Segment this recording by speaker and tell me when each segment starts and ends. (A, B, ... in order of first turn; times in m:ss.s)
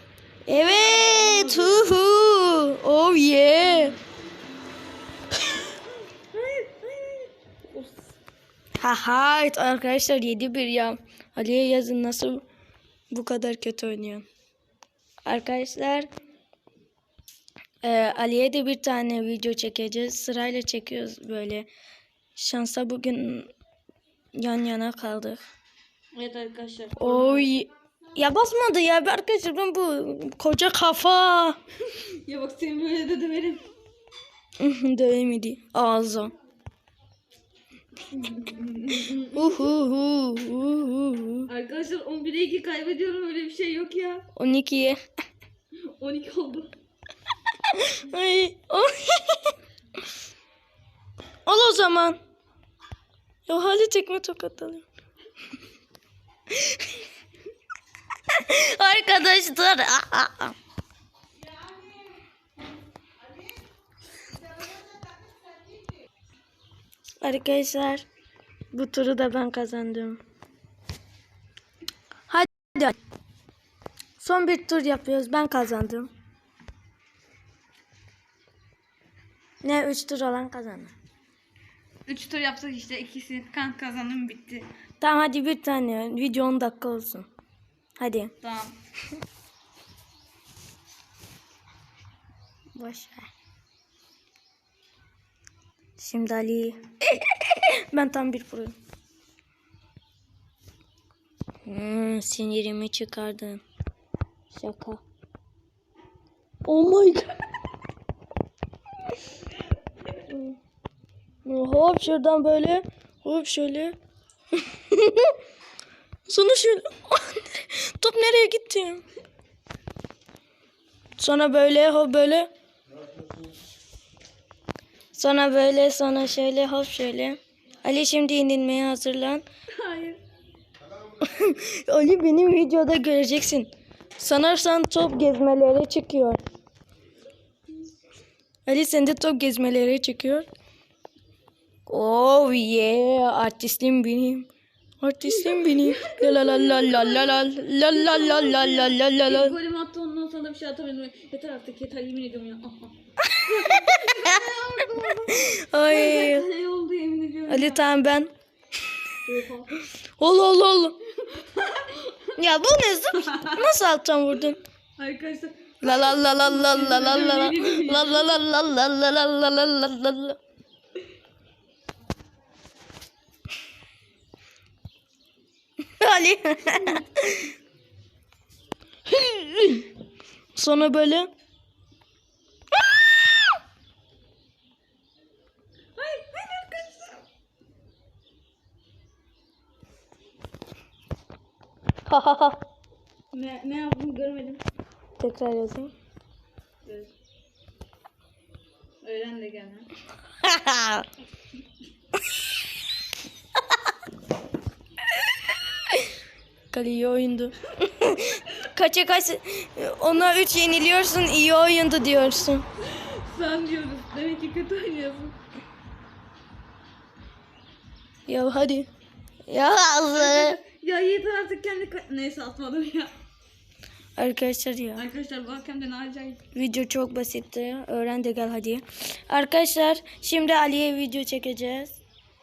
0:00.4-0:04.0 A
0:00.5-0:02.0 B
0:06.3-0:08.1 B
0:08.8-0:12.4 A
0:13.1-0:14.2 A
0:15.2-0:16.1 A
0:17.8-0:21.7 A
0:22.4-0:23.5 A
0:24.4-0:25.4 A
0:26.1-0:27.5 B
0:27.0-0:31.6 A
0:31.8-0:33.7 B
0:34.6-0:36.3 A
0:38.1-0:39.7 B
0:39.3-0:41.5 A
0:41.5-0:44.2 B
0:44.3-0:45.0 A
0:45.9-0:46.7 B
0:47.7-0:49.5 A
0:51.4-0:52.2 A
0:53.5-0:54.8 A
0:56.5-0:56.8 A
0:58.3-1:00.5 A
1:07.2-1:08.0 A
1:08.7-1:10.2 A
1:12.3-1:13.0 A
1:14.2-1:16.1 A
1:19.6-1:20.9 A
1:22.1-1:24.6 B
1:25.0-1:27.3 A
1:28.0-1:28.3 A
1:28.4-1:28.7 B
1:32.8-1:33.3 A
1:36.0-1:38.7 A
1:41.6-1:43.6 A
1:44.5-1:45.0 A
1:46.6-1:47.3 A
1:50.1-1:50.6 A
1:51.4-1:53.9 A
1:54.6-1:55.3 A
1:56.3-1:59.0 A
2:01.2-2:02.5 A
2:05.1-2:09.4 A
2:09.7-2:10.2 B
2:11.2-2:16.4 A
2:18.7-2:20.5 A
2:21.9-2:24.5 A
2:25.0-2:29.5 A
2:25.2-2:37.9 B
2:33.3-2:34.3 A
2:35.3-2:36.5 A
2:37.5-2:38.3 A
2:39.2-2:39.7 B
2:40.2-2:41.0 A
2:41.2-2:42.3 B
2:42.4-2:44.6 A
2:43.2-2:43.6 B
2:45.0-2:48.3 B
2:45.8-2:50.4 A
2:56.0-2:57.5 A
2:59.1-2:59.9 A
3:00.5-3:01.3 A
3:06.0-3:07.2 B
3:12.0-3:12.6 A
3:13.3-3:14.6 B
3:15.2-3:15.9 A
3:16.8-3:17.1 B
3:19.0-3:19.9 B
3:20.4-3:21.0 A
3:26.7-3:32.6 A
3:32.8-3:35.3 B
3:38.3-3:38.9 A
3:39.5-3:40.6 A
3:40.1-3:43.1 B
3:44.2-3:45.0 A
3:45.0-3:46.4 B
3:46.5-3:52.0 A